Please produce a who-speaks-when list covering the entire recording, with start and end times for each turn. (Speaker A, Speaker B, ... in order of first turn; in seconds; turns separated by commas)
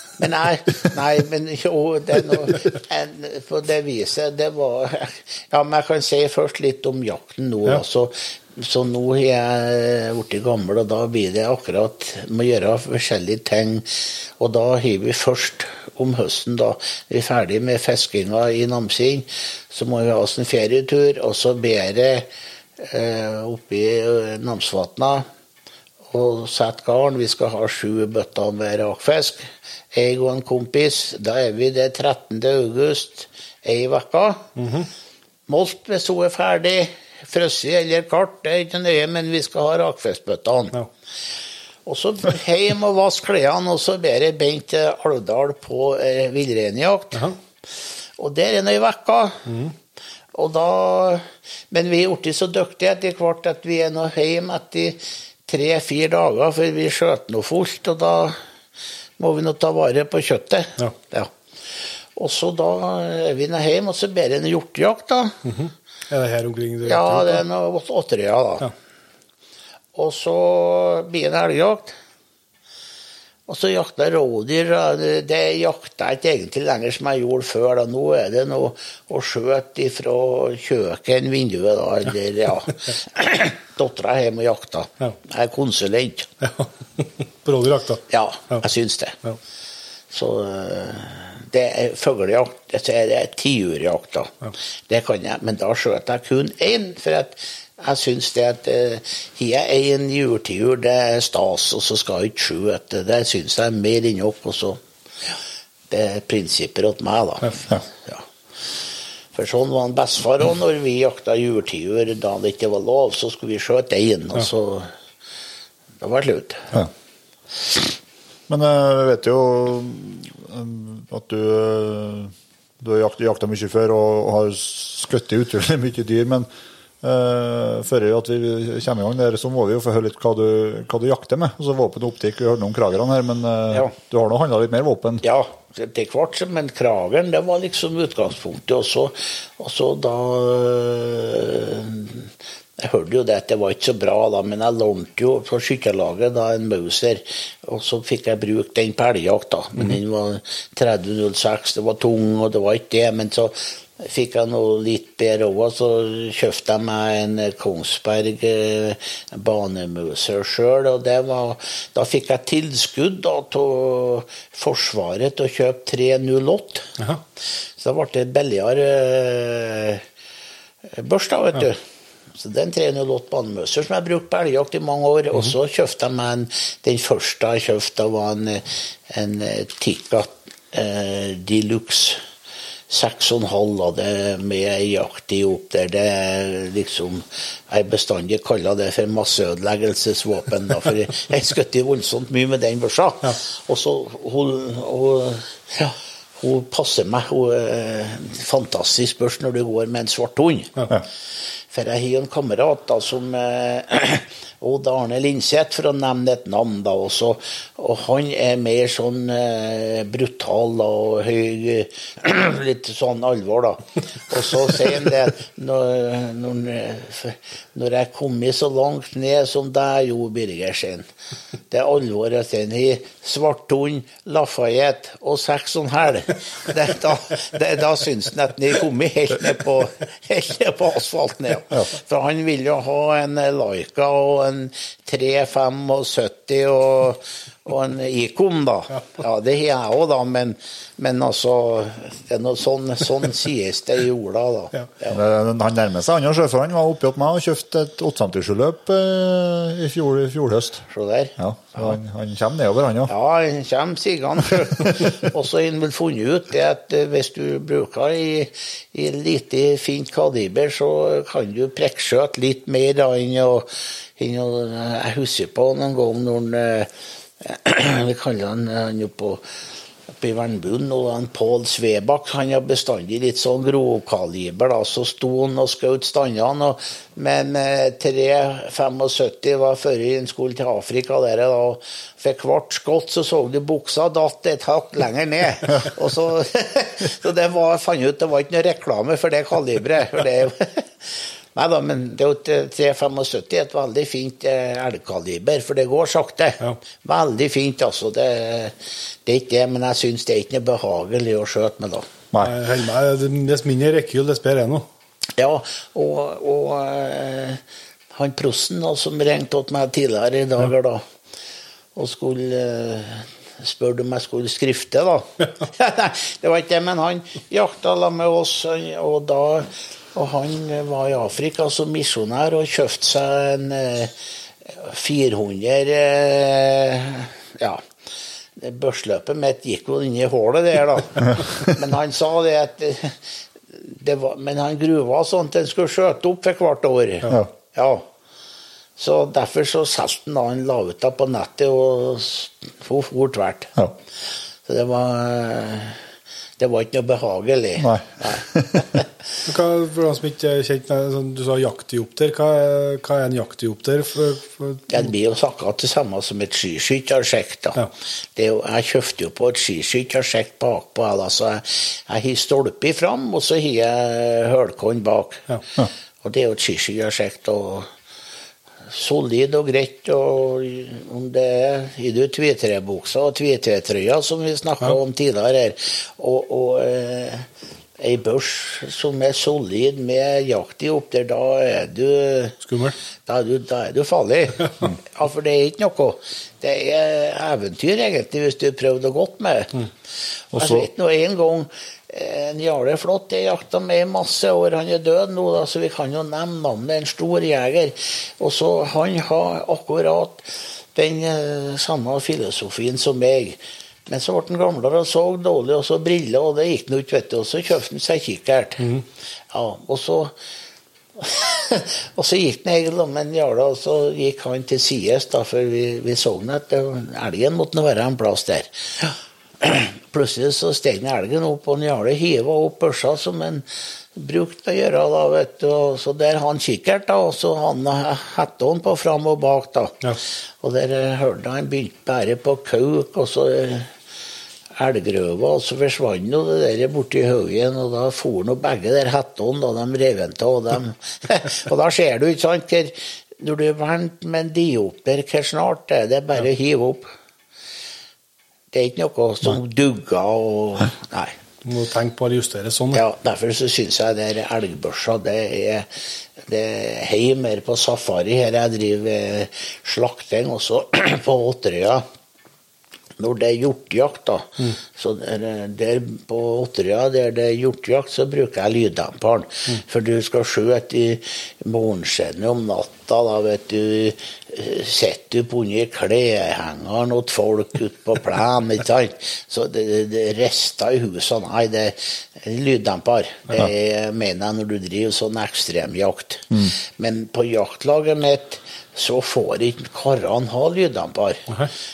Speaker A: 0.2-25.2, Speaker A: 26.1-34.5, Speaker B: 34.6-34.9, Speaker A: 35.5-40.7, Speaker A: 41.9-47.3, Speaker A: 48.2-49.5, Speaker B: 49.5-49.7, Speaker A: 50.3-58.4, Speaker A: 59.2-61.3, Speaker A: 62.1-65.4, Speaker B: 65.4-67.4, Speaker A: 66.8-68.7, Speaker A: 69.9-71.9, Speaker A: 73.5-86.3, Speaker B: 86.4-88.6, Speaker A: 88.1-89.2, Speaker A: 90.1-105.3, Speaker A: 105.9-108.2, Speaker A: 109.3-114.9, Speaker A: 116.0-116.7, Speaker C: 118.5-126.5, Speaker C: 127.0-135.2, Speaker A: 135.2-166.9, Speaker A: 167.8-170.0, Speaker A: 170.9-171.8, Speaker A: 172.3-182.2, Speaker A: 182.9-200.8, Speaker A: 201.7-221.1, Speaker A: 221.7-245.2, Speaker C: 245.1-250.8, Speaker A: 250.9-251.3, Speaker C: 251.4-253.1, Speaker A: 253.1-266.9, Speaker A: 267.4-269.4, Speaker A: 270.2-302.1, Speaker B: 302.4-304.9, Speaker A: 305.4-307.6, Speaker A: 308.1-311.0, Speaker A: 311.9-324.1, Speaker A: 324.6-327.9, Speaker A: 328.6-338.1, Speaker A: 339.0-343.7, Speaker A: 344.6-346.0, Speaker A: 346.6-349.1, Speaker C: 347.8-348.9, Speaker B: 349.4-355.0, Speaker A: 354.9-357.8, Speaker A: 358.4-365.4, Speaker A: 366.2-367.9, Speaker A: 368.9-377.4, Speaker A: 378.0-382.6, Speaker B: 382.6-382.9, Speaker A: 383.2-389.8, Speaker C: 390.5-390.9, Speaker A: 390.5-408.9, Speaker A: 409.5-410.3, Speaker A: 411.2-430.0, Speaker A: 430.6-433.9, Speaker A: 434.8-447.1, Speaker A: 448.7-451.3, Speaker B: 451.6-453.0, Speaker A: 452.9-462.0, Speaker A: 463.2-491.5